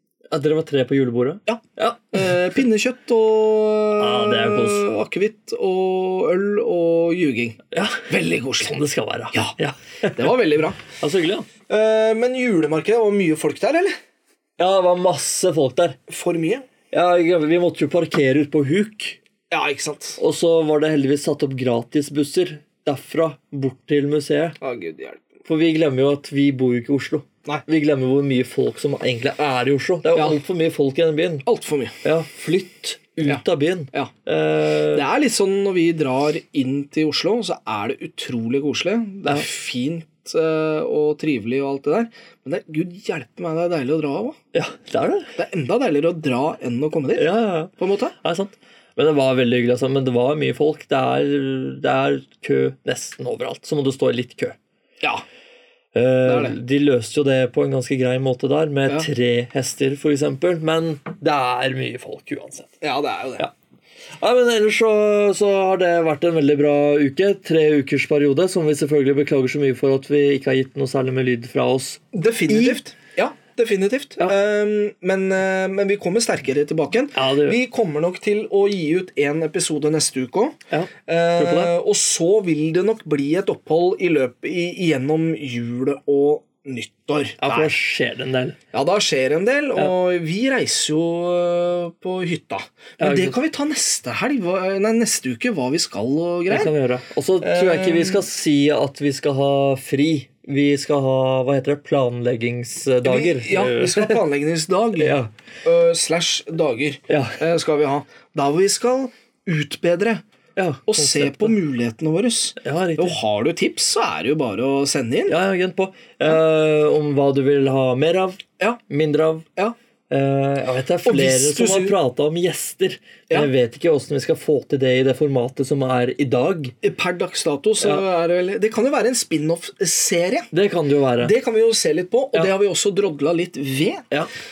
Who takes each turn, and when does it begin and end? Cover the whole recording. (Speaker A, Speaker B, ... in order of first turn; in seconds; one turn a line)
Speaker A: 0.3-2.5
Speaker B: 1.5-8.8
Speaker A: 4.0-4.9
Speaker A: 7.7-8.1
Speaker A: 8.6-11.5
Speaker B: 10.1-10.8
Speaker B: 11.7-13.9
Speaker A: 14.6-16.0
Speaker B: 16.1-16.7
Speaker A: 16.9-19.2
Speaker B: 19.5-20.2
Speaker A: 20.2-24.6
Speaker B: 24.6-25.4
Speaker A: 25.4-31.4
Speaker B: 30.1-30.4
Speaker B: 31.4-32.0
Speaker A: 32.0-35.0
Speaker B: 33.2-34.1
Speaker B: 34.9-44.4
Speaker A: 44.5-45.3
Speaker B: 45.4-48.1
Speaker A: 47.1-54.6
Speaker A: 55.9-62.7
Speaker B: 56.2-56.6
Speaker B: 62.8-63.5
Speaker A: 64.2-72.8
Speaker B: 72.1-87.7
Speaker A: 77.1-77.6
Speaker A: 80.7-81.7
Speaker A: 87.4-88.6
Speaker B: 88.7-96.7
Speaker A: 93.0-93.4
Speaker A: 96.5-104.2
Speaker B: 97.4-98.2
Speaker B: 103.0-110.2
Speaker A: 105.0-105.3
Speaker A: 107.1-107.4
Speaker A: 110.5-111.6
Speaker B: 110.9-115.4
Speaker A: 112.6-113.2
Speaker A: 115.3-119.5
Speaker A: 120.1-126.8
Speaker B: 121.0-122.0
Speaker B: 126.8-130.5
Speaker A: 130.5-131.3
Speaker B: 131.2-134.1